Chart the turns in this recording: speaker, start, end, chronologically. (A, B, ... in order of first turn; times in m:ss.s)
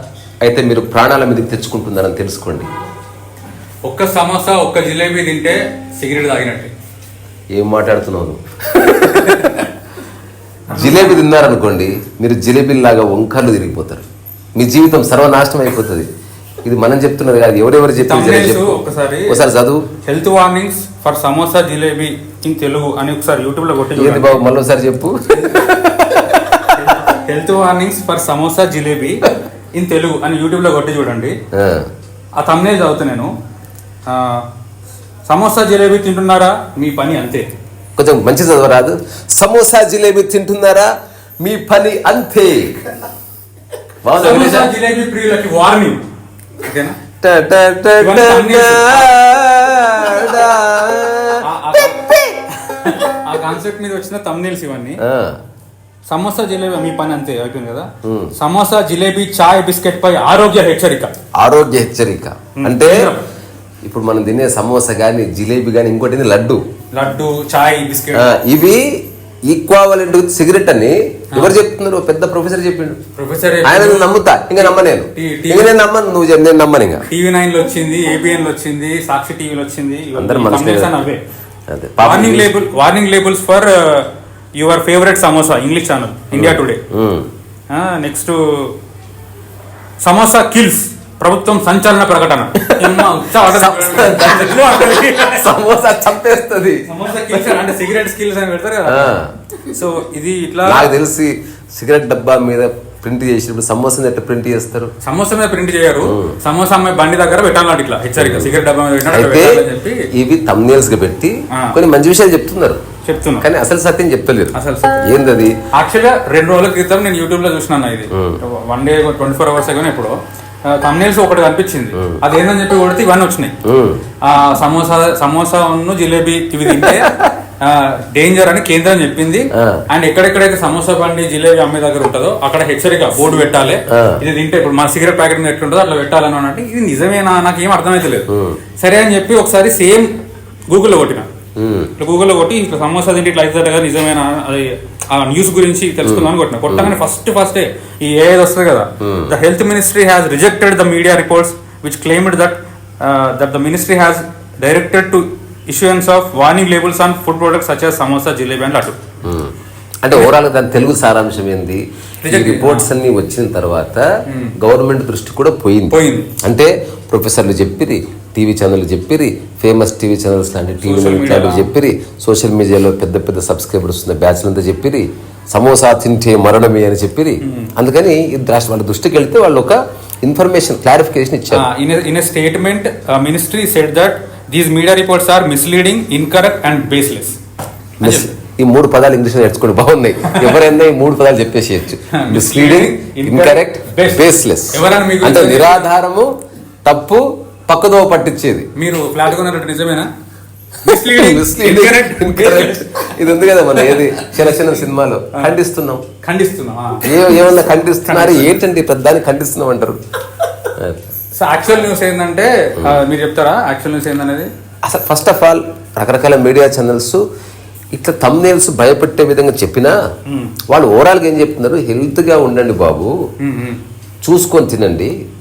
0:00.4-0:02.7 A
0:03.8-0:06.7 B
0:07.5-0:09.5 A
0:09.1-0:09.7 B
0:10.7-0:11.3 B
0:10.7-0:14.0 A
0:14.6-0:16.1 A
0:16.6-0:19.8 A
0:18.0-0:19.5 B
0:20.0-0:24.5 B
0:23.9-0:26.9 A
0:25.3-0:25.6 B
0:26.7-0:31.4 B
0:31.6-0:31.9 A
0:32.4-0:33.3 B
0:34.1-0:34.4 B
0:35.2-0:37.5 B
0:38.0-0:40.9 A
0:41.4-0:42.9 A
0:44.0-0:44.7 A
0:44.1-0:46.0 B
0:46.6-0:47.0 B
0:47.2-0:52.4 A
0:48.0-0:49.1 B
0:51.4-0:55.0 B
0:55.0-0:55.4 A
0:56.0-1:01.1 B
0:58.0-0:58.3 A
1:01.4-1:03.1 A
1:02.5-1:03.2 B
1:03.8-1:06.6 A
1:06.9-1:08.4 B
1:08.1-1:08.8 A
1:09.5-1:13.0 A
1:13.2-1:15.7 B
1:13.6-1:17.0 A
1:17.1-1:21.2 B
1:20.1-1:21.0 A
1:21.7-1:22.5 A
1:22.0-1:26.8 B
1:26.3-1:27.3 A
1:27.7-1:28.7 B
1:30.0-1:35.5 B
1:32.7-1:37.6 A
1:36.8-1:40.9 B
1:38.9-1:39.3 A
1:40.6-1:44.9 A
1:45.0-1:50.1 B
1:46.0-1:46.4 A
1:48.2-1:48.5 A
1:49.1-1:49.6 A
1:50.1-1:52.8 A
1:51.5-1:51.8 B
1:53.0-1:53.5 B
1:53.4-1:55.5 A
1:54.5-1:55.1 B
1:55.7-2:03.5 B
1:58.1-1:58.4 A
2:01.9-2:02.2 A
2:03.6-2:04.0 A
2:04.2-2:20.1 B
2:06.7-2:07.3 A
2:13.3-2:14.2 A
2:18.3-2:18.6 A
2:20.7-2:21.3 B
2:21.6-2:21.9 A
2:22.0-2:39.0 B
2:26.0-2:27.0 A
2:29.0-2:29.4 A
2:39.2-2:39.5 A
2:40.0-2:44.0 A
2:42.2-2:42.9 B
2:44.3-2:44.5 B
2:44.6-3:01.6 A
2:45.9-2:46.3 B
2:50.8-2:51.7 B
2:57.4-2:57.7 B
3:01.5-3:07.4 B
3:08.0-3:08.4 B
3:08.0-3:16.3 A
3:10.3-3:10.6 B
3:12.1-3:15.9 B
3:16.8-3:18.7 A
3:18.8-3:20.1 B
3:20.8-3:25.6 B
3:20.9-3:26.0 A
3:26.2-3:28.6 B
3:27.0-3:30.0 A
3:30.8-3:31.1 A
3:31.3-3:34.5 B
3:34.8-3:37.2 A
3:37.9-3:39.9 A
3:40.3-3:40.5 B
3:40.7-3:43.1 A
3:43.4-3:43.8 B
3:44.2-3:45.1 A